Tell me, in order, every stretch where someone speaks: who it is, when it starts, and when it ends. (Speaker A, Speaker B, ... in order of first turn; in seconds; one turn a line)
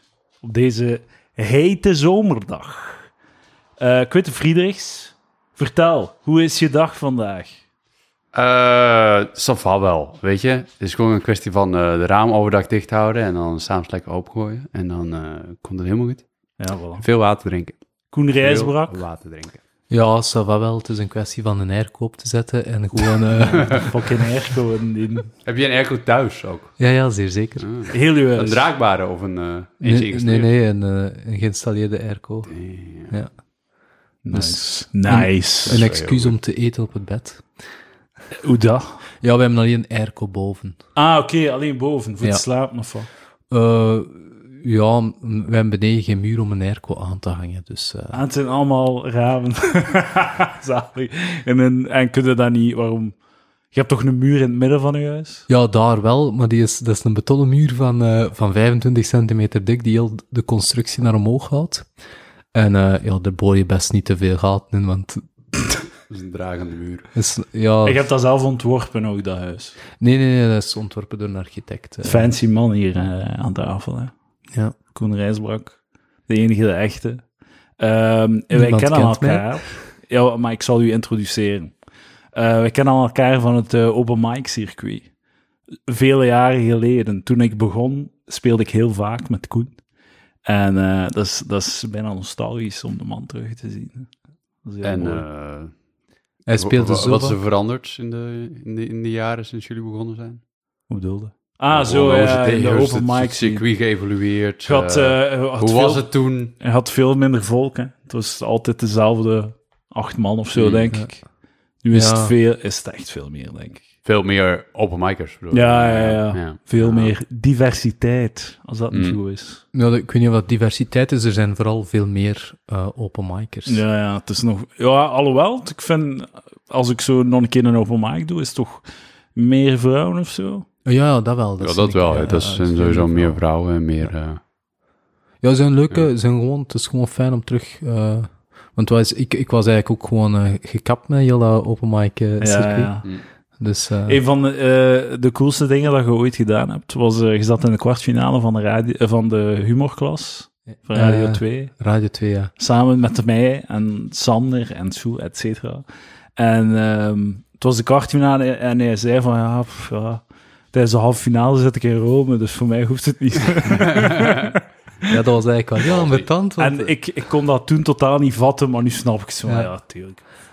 Speaker A: 0.4-3.1
Speaker A: 3.8-7.6
Speaker B: 8.3-16.2
Speaker A: 16.6-17.0
Speaker B: 17.0-17.8
Speaker A: 18.1-19.0
Speaker B: 18.4-19.6
Speaker C: 19.9-24.0
Speaker B: 23.5-23.8
Speaker A: 23.7-25.3
Speaker B: 25.4-26.7
Speaker C: 26.8-27.7
Speaker B: 27.6-30.5
Speaker A: 27.9-28.6
Speaker C: 29.8-32.5
Speaker B: 32.5-33.1
Speaker A: 34.2-35.9
Speaker C: 34.3-37.5
Speaker B: 35.6-36.3
Speaker A: 38.3-38.9
Speaker C: 39.2-40.8
Speaker A: 41.0-43.1
Speaker C: 43.5-48.2
Speaker A: 48.1-53.1
Speaker A: 53.7-55.4
Speaker C: 55.5-61.9
Speaker C: 62.5-65.8
Speaker B: 66.1-67.1
Speaker C: 67.1-68.0
Speaker A: 67.8-69.8
Speaker C: 70.0-72.3
Speaker A: 72.0-74.1
Speaker A: 74.9-77.2
Speaker A: 77.8-81.7
Speaker C: 78.5-79.5
Speaker A: 82.3-85.1
Speaker A: 85.9-89.8
Speaker A: 90.5-94.1
Speaker A: 94.6-95.2
Speaker B: 94.8-95.7
Speaker C: 96.5-97.4
Speaker B: 96.5-100.4
Speaker A: 100.9-103.6
Speaker B: 101.7-106.5
Speaker A: 104.6-106.1
Speaker A: 106.6-111.2
Speaker B: 110.5-110.9
Speaker A: 111.8-113.8
Speaker C: 111.9-112.3
Speaker B: 114.0-117.1
Speaker A: 115.5-119.6
Speaker B: 118.9-119.2
Speaker C: 119.7-123.8
Speaker A: 123.7-128.8
Speaker A: 129.3-130.7
Speaker C: 130.8-133.4
Speaker B: 131.6-134.4
Speaker C: 135.4-142.9
Speaker A: 142.4-143.1
Speaker C: 143.6-144.2
Speaker A: 144.1-151.7
Speaker C: 150.9-152.5
Speaker A: 152.6-155.8
Speaker A: 156.3-165.1
Speaker B: 163.7-164.6
Speaker C: 165.1-166.9
Speaker B: 165.9-166.3
Speaker A: 166.6-170.2